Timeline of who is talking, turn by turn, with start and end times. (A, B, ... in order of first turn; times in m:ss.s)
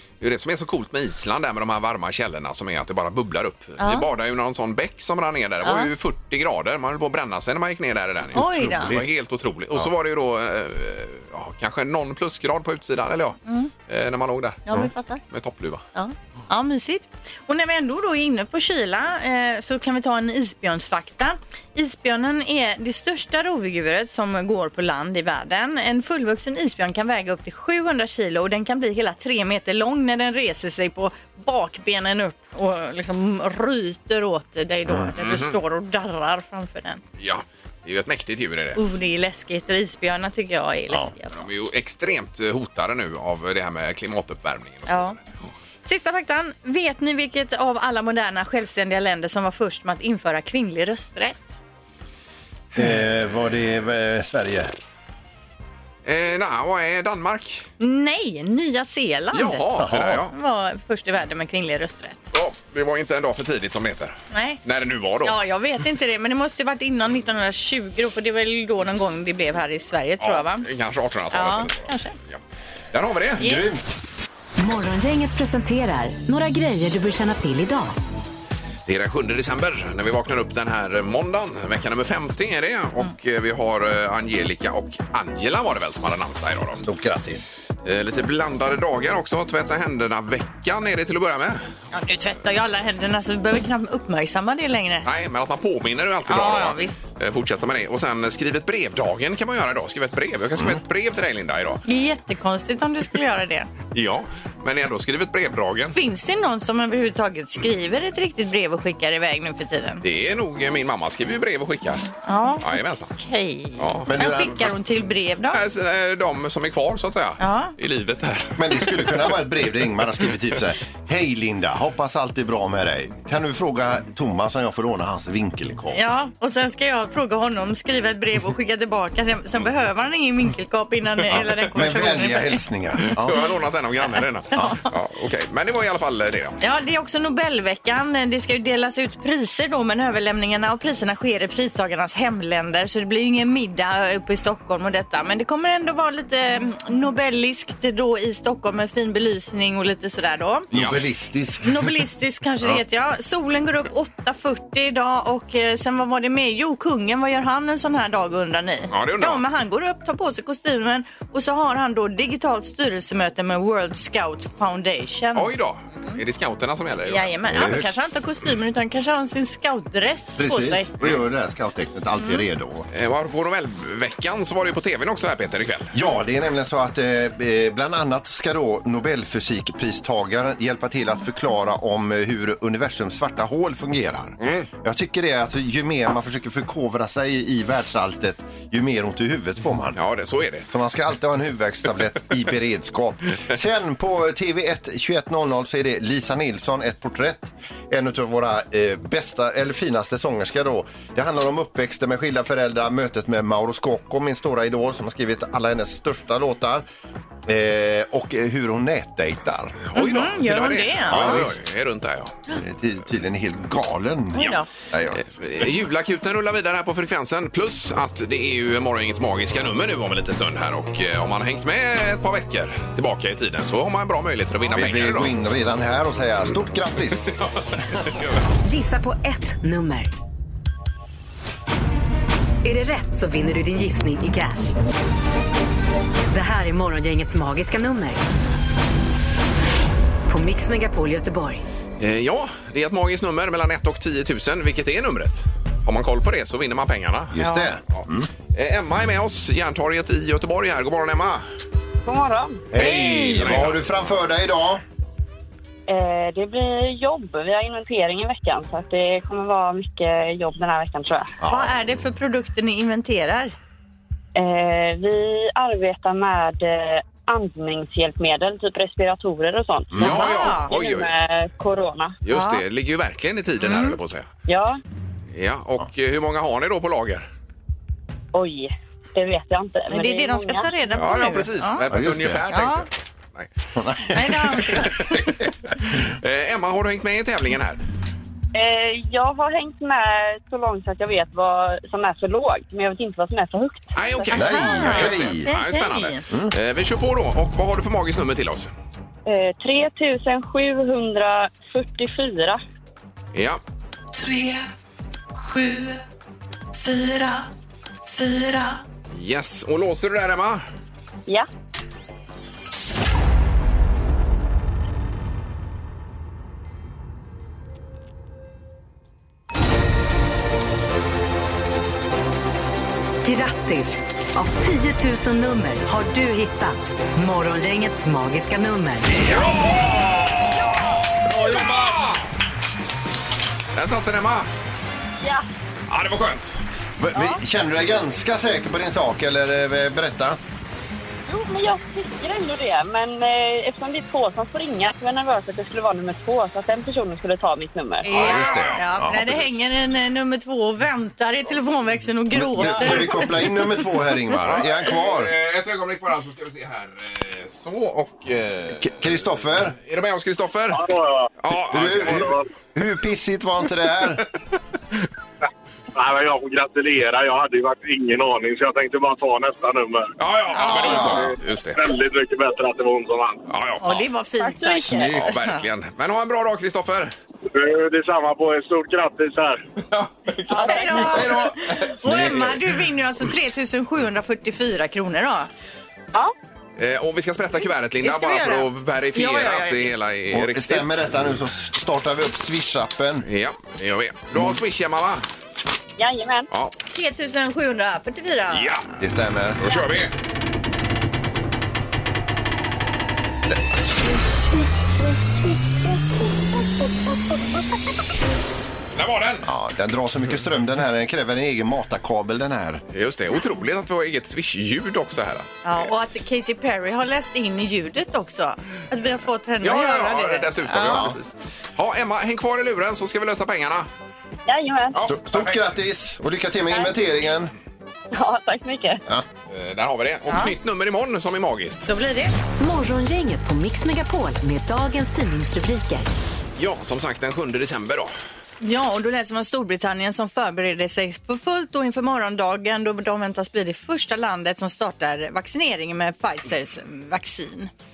0:00.2-0:14.7 A
0:03.8-0:04.1 B
0:05.6-0:05.9 B
0:08.3-0:08.9 B
0:08.4-0:09.1 C
0:13.5-0:13.7 B
0:14.7-0:15.2 B
0:15.3-0:15.8 A
0:16.0-0:37.0 B
0:35.2-0:35.6 A
0:37.2-0:38.8 A
0:38.8-0:41.5 B
0:41.4-0:45.2 A
0:44.9-0:45.2 B
0:45.8-0:51.6 B
0:52.7-0:54.8 C
0:56.0-0:57.7 A
0:57.8-0:59.6 B
0:59.3-1:00.3 A
0:59.8-1:00.2 C
1:00.3-1:02.2 B
1:02.3-1:05.4 A
1:04.3-1:04.6 B
1:05.2-1:10.7 B
1:10.2-1:12.4 A
1:11.3-1:12.2 B
1:12.9-1:13.8 A
1:13.4-1:13.8 B
1:14.6-1:18.0 D
1:18.9-1:26.8 A
1:26.8-1:27.5 C
1:27.8-1:31.6 A
1:31.9-1:35.1 B
1:35.0-1:41.8 A
1:36.3-1:37.0 B
1:41.9-1:43.7 B
1:43.9-1:46.0 A
1:45.9-1:50.0 B
1:50.0-1:52.1 A
1:52.3-1:55.6 B
1:52.6-1:53.1 A
1:53.8-1:54.1 A
1:54.1-1:54.6 C
1:55.5-1:59.2 A
1:57.4-1:57.7 B
1:58.6-2:06.0 C
2:05.9-2:12.6 B
2:11.3-2:13.5 C
2:13.1-2:16.6 A
2:14.6-2:14.8 B
2:16.6-2:30.7 B
2:30.7-2:32.0 C
2:31.6-2:45.5 B
2:38.9-2:39.4 A
2:45.4-2:47.3 A
2:47.1-2:50.9 B
2:47.5-2:47.9 C
2:50.4-2:52.9 C
2:52.9-2:55.9 A
2:55.9-3:10.0 C
3:10.0-3:10.7 A
3:10.7-3:26.9 C
3:27.5-3:29.8 C
3:29.9-3:32.4 A
3:30.0-3:31.4 B
3:31.1-3:31.5 C
3:32.6-3:35.2 C
3:34.3-3:34.7 B
3:35.2-3:45.3 A
3:44.7-3:47.4 C
3:48.6-3:50.1 D
3:52.6-3:54.8 D
3:56.3-3:58.2 D
4:00.3-4:01.6 D
4:02.0-4:07.4 A
4:07.3-4:08.3 C
4:07.9-4:11.4 A
4:12.0-4:12.6 E
4:12.7-4:14.8 C
4:12.8-4:13.6 B
4:13.4-4:13.8 A
4:15.9-4:21.4 E
4:21.4-4:21.8 C
4:21.4-4:23.6 B
4:24.4-4:32.2 E
4:30.0-4:31.1 A
4:30.0-4:30.7 B
4:32.2-4:34.3 A
4:32.3-4:32.6 B
4:33.6-4:34.0 B
4:34.5-4:34.8 E
4:35.3-4:37.3 A
4:38.3-4:40.7 E
4:39.9-4:41.8 B
4:40.9-4:43.5 A
4:41.9-4:42.5 C
4:42.5-4:42.9 B
4:43.8-4:44.9 C
4:44.1-4:45.3 B
4:45.0-4:47.8 A
4:48.5-4:55.1 E
4:54.0-4:58.7 A
4:54.3-4:55.5 C
4:54.4-4:56.2 B
4:59.3-5:02.6 E
5:03.3-5:03.6 A
5:04.1-5:04.7 D
5:05.4-5:06.0 D
5:06.8-5:07.5 D
5:08.1-5:08.8 D
5:09.1-5:10.7 A
5:23.2-5:29.2 D
5:29.2-5:30.6 A
5:31.2-5:32.3 A
5:33.7-5:34.5 A
5:35.9-5:36.6 A
5:37.0-5:40.4 C
5:37.2-5:37.4 E
5:41.3-5:48.1 E
5:48.0-5:53.3 B
5:48.1-5:48.8 A
5:48.1-5:49.6 C
5:52.3-5:55.3 C
5:54.4-6:00.8 A
5:58.8-5:59.8 C
6:00.7-6:01.3 F
6:01.4-6:02.3 A
6:01.7-6:04.2 C
6:02.1-6:02.4 F
6:05.9-6:10.1 F
6:10.2-6:11.8 A
6:10.5-6:11.2 B
6:10.7-6:11.3 C
6:11.8-6:13.4 F
6:13.5-6:14.0 A
6:13.8-6:15.5 B
6:14.4-6:15.1 E
6:14.7-6:15.4 C
6:14.9-6:17.1 A
6:17.5-6:19.6 F
6:19.9-6:22.6 A
6:20.5-6:25.5 B
6:20.5-6:21.3 E
6:22.0-6:22.6 C
6:26.8-6:31.1 A
6:28.0-6:29.9 B
6:30.3-6:33.3 C
6:33.2-6:35.2 A
6:36.0-6:36.5 E
6:36.5-6:36.8 A
6:36.9-6:38.8 B
6:38.5-6:38.8 A
6:39.0-6:39.6 C
6:39.6-6:40.1 A
6:48.9-6:49.5 A
6:49.4-6:52.8 C
6:52.9-6:55.6 A
6:55.6-7:01.1 B
6:59.6-7:03.9 A
7:00.9-7:01.2 C
7:04.5-7:05.0 E
7:05.0-7:05.6 A
7:05.1-7:07.5 C
7:08.1-7:09.0 E
7:09.5-7:11.8 A
7:11.8-7:12.4 B
7:12.6-7:16.1 D
7:16.6-7:18.1 A
7:18.6-7:27.7 B